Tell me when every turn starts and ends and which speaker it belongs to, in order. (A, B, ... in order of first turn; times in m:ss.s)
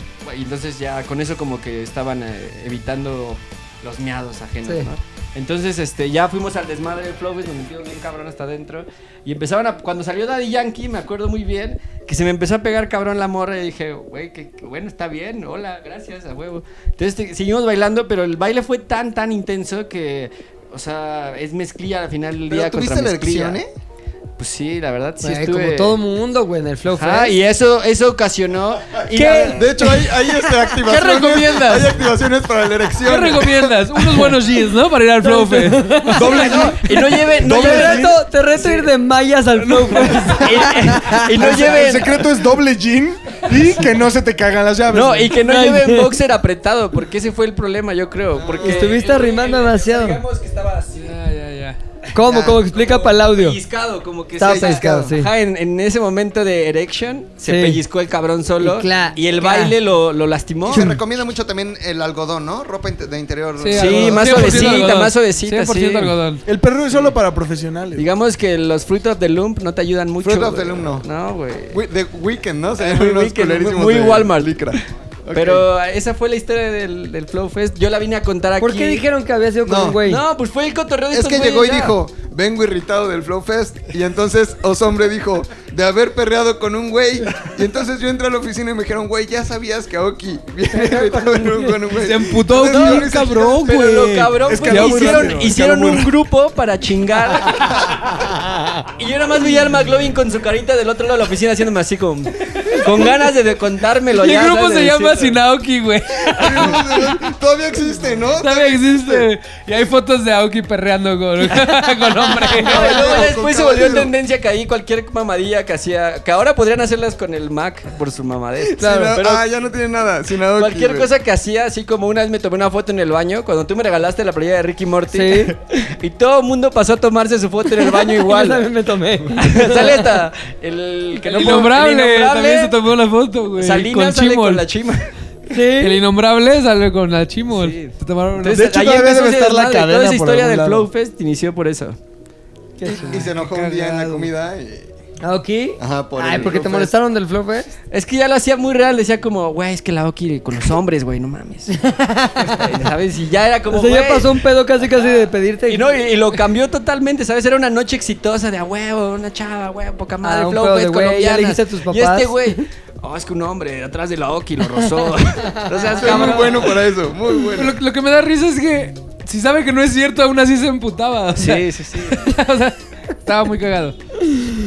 0:00.2-0:23.6 A
0:22.5-0:23.7 B
0:24.4-0:26.0 A
0:25.2-0:27.3 C
0:26.9-0:29.9 A
0:29.1-0:29.7 C
0:29.3-0:34.3 B
0:30.8-0:31.9 D
0:33.0-0:36.6 D
0:35.2-0:36.8 C
0:36.1-0:36.8 E
0:36.2-0:38.6 A
0:37.3-0:38.2 E
0:37.4-0:41.3 C
0:40.4-0:42.3 A
0:41.3-0:45.4 E
0:44.9-0:51.2 A
0:45.4-0:46.1 C
0:48.3-0:48.9 B
0:48.6-0:50.2 C
0:51.0-0:51.8 D
0:52.1-0:53.6 C
0:52.2-0:52.6 B
0:52.7-1:01.0 A
0:54.4-0:55.3 C
0:54.4-0:55.1 B
0:57.4-0:57.8 C
0:58.6-0:59.7 C
1:00.6-1:04.8 B
1:03.6-1:06.4 D
1:03.7-1:06.2 A
1:06.4-1:08.0 E
1:08.0-1:11.8 A
1:10.2-1:11.0 B
1:11.7-1:15.6 B
1:12.8-1:14.8 A
1:15.3-1:19.0 A
1:18.6-1:20.2 C
1:19.6-1:20.0 B
1:20.0-1:22.0 A
1:21.1-1:33.7 B
1:30.7-1:31.8 C
1:31.9-1:35.5 D
1:32.6-1:38.0 A
1:34.4-1:36.1 E
1:39.0-1:45.4 A
1:44.1-1:47.1 D
1:46.3-1:49.3 B
1:48.4-1:53.1 D
1:51.6-1:59.4 A
1:52.5-1:54.1 B
1:58.6-2:01.1 B
1:58.8-1:59.2 C
2:00.5-2:08.7 A
2:05.1-2:05.5 C
2:07.9-2:10.0 C
2:09.4-2:12.8 A
2:11.2-2:14.6 D
2:13.6-2:15.1 A
2:15.5-2:16.0 C
2:15.8-2:18.6 D
2:17.5-2:22.0 A
2:18.5-2:20.9 E
2:22.8-2:23.3 C
2:22.8-2:24.9 B
2:22.9-2:24.3 D
2:25.2-2:27.7 C
2:25.8-2:26.9 B
2:27.9-2:31.8 A
2:31.7-2:32.7 C
2:32.4-2:34.4 A
2:33.7-2:35.8 C
2:35.7-2:46.8 A
2:40.2-2:42.3 C
2:45.9-2:47.8 B
2:47.5-2:53.9 D
2:51.4-2:52.3 A